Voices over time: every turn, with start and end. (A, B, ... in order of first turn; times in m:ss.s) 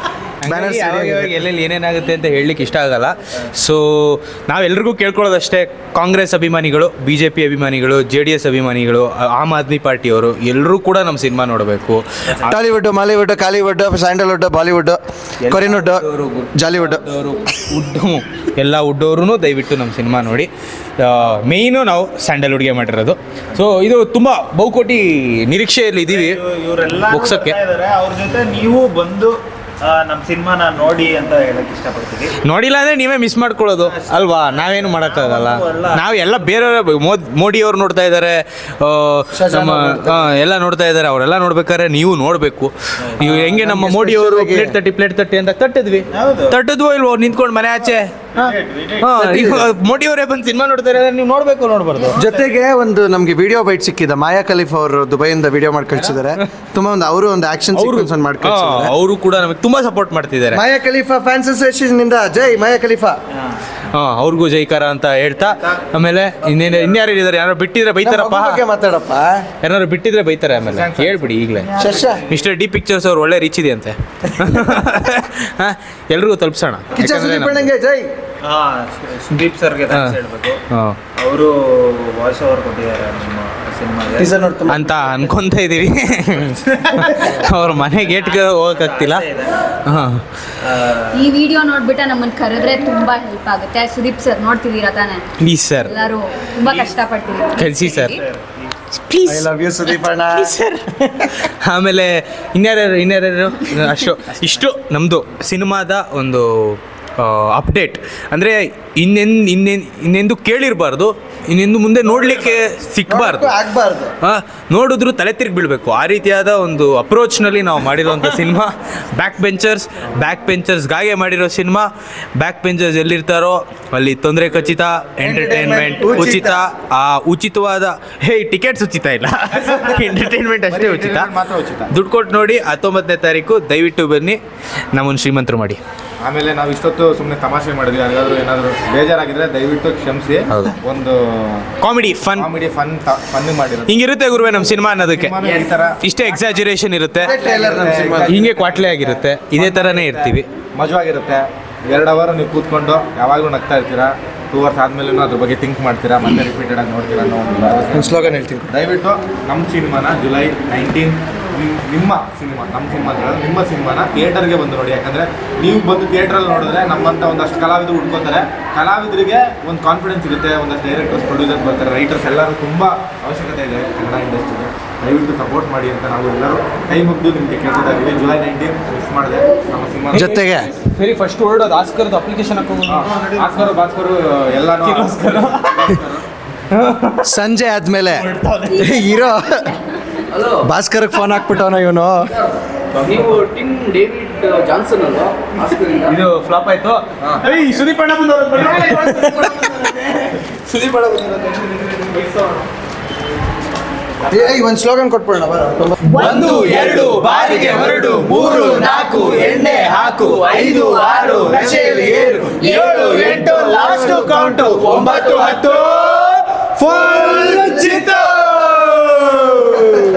0:00.4-0:12.0 A
0:00.4-0:01.4 B
0:12.3-0:12.6 C
0:12.4-0:17.0 B
0:15.4-0:26.4 A
0:26.1-0:32.4 C
0:27.0-0:27.6 A
0:32.4-0:52.2 A
0:33.8-0:36.1 C
0:39.3-0:40.3 B
0:43.1-0:43.4 C
0:43.4-0:44.8 B
0:46.1-0:46.6 C
0:48.3-0:49.1 C
0:49.2-0:49.7 B
0:52.0-0:52.5 C
0:52.2-0:58.9 B
0:56.0-0:56.4 A
0:57.7-1:00.6 A
1:00.5-1:03.2 B
1:03.3-1:03.6 C
1:03.9-1:08.6 A
1:05.4-1:05.8 C
1:08.0-1:09.4 B
1:09.6-1:11.7 A
1:10.6-1:11.4 D
1:11.5-1:12.4 C
1:11.8-1:12.2 B
1:12.3-1:17.7 A
1:16.9-1:18.1 B
1:18.4-1:20.6 C
1:19.9-1:20.2 A
1:20.7-1:21.0 A
1:21.2-1:24.3 C
1:24.2-1:24.8 B
1:24.7-1:29.2 A
1:26.4-1:29.6 C
1:29.8-1:30.2 A
1:30.6-1:31.2 C
1:31.1-1:35.3 E
1:35.4-1:35.9 A
1:35.8-1:38.2 E
1:36.6-1:36.9 C
1:37.6-1:38.2 A
1:37.8-1:38.8 C
1:39.1-1:39.5 A
1:39.2-1:41.3 B
1:40.3-1:40.8 A
1:41.6-1:53.6 A
1:53.1-1:54.1 B
1:54.2-2:11.3 A
2:05.2-2:06.6 B
2:10.7-2:11.9 D
2:11.9-2:14.4 A
2:14.9-2:15.8 A
2:16.2-2:21.7 D
2:20.5-2:20.8 A
2:21.8-2:22.5 A
2:22.3-2:24.0 D
2:23.9-2:25.3 A
2:25.0-2:26.0 D
2:26.0-2:27.3 A
2:27.2-2:28.4 B
2:27.2-2:38.1 D
2:28.2-2:30.4 A
2:37.9-2:38.7 B
2:38.7-3:00.3 D
3:00.1-3:00.7 B
3:00.1-3:03.7 A
3:02.9-3:06.2 D
3:04.8-3:06.0 A
3:06.7-3:07.3 A
3:07.2-3:08.2 B
3:08.0-3:09.1 A
3:08.8-3:09.7 B
3:10.3-3:10.7 F
3:10.6-3:12.3 B
3:13.0-3:16.2 F
3:16.0-3:22.6 A
3:18.9-3:19.3 B
3:24.3-3:29.8 B
3:26.1-3:26.6 E
3:26.2-3:40.0 A
3:29.1-3:29.5 C
3:30.6-3:33.9 B
3:32.6-3:33.3 E
3:32.8-3:35.4 C
3:37.1-3:37.8 B